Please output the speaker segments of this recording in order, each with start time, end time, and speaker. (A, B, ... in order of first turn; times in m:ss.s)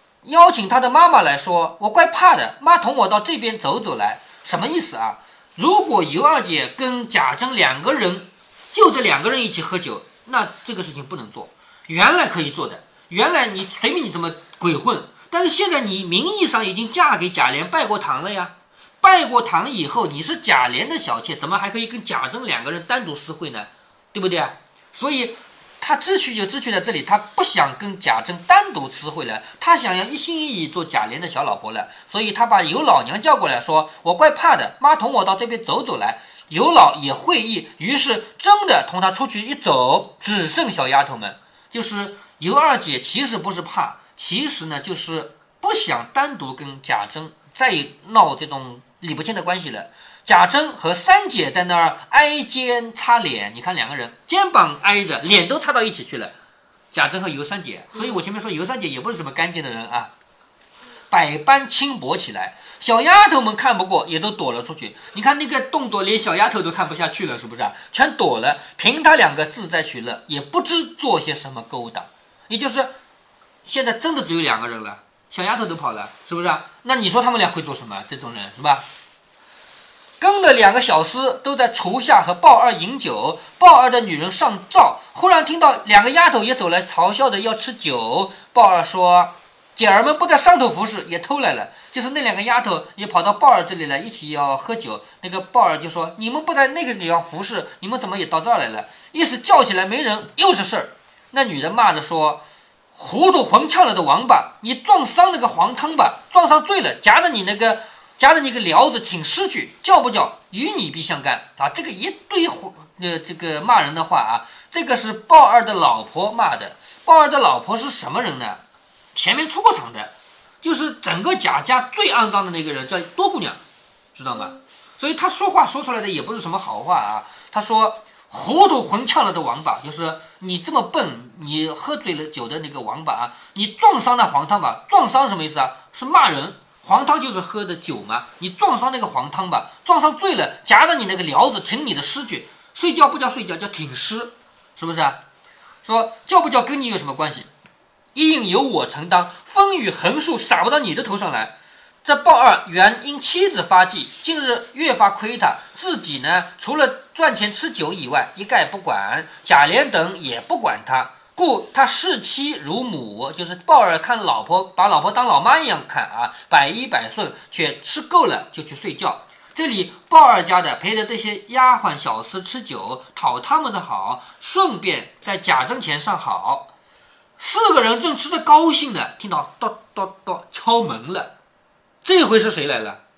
0:00.2-0:56.4 A
0:56.9-1:00.1 A
1:01.1-1:12.9 A
1:13.7-1:18.8 A
1:20.2-1:42.4 A
1:42.9-1:58.6 A
1:59.2-2:03.6 A
2:04.2-2:25.2 A
2:25.8-2:27.5 A
2:28.2-2:56.7 A
2:57.4-3:01.3 A
3:02.0-3:03.0 A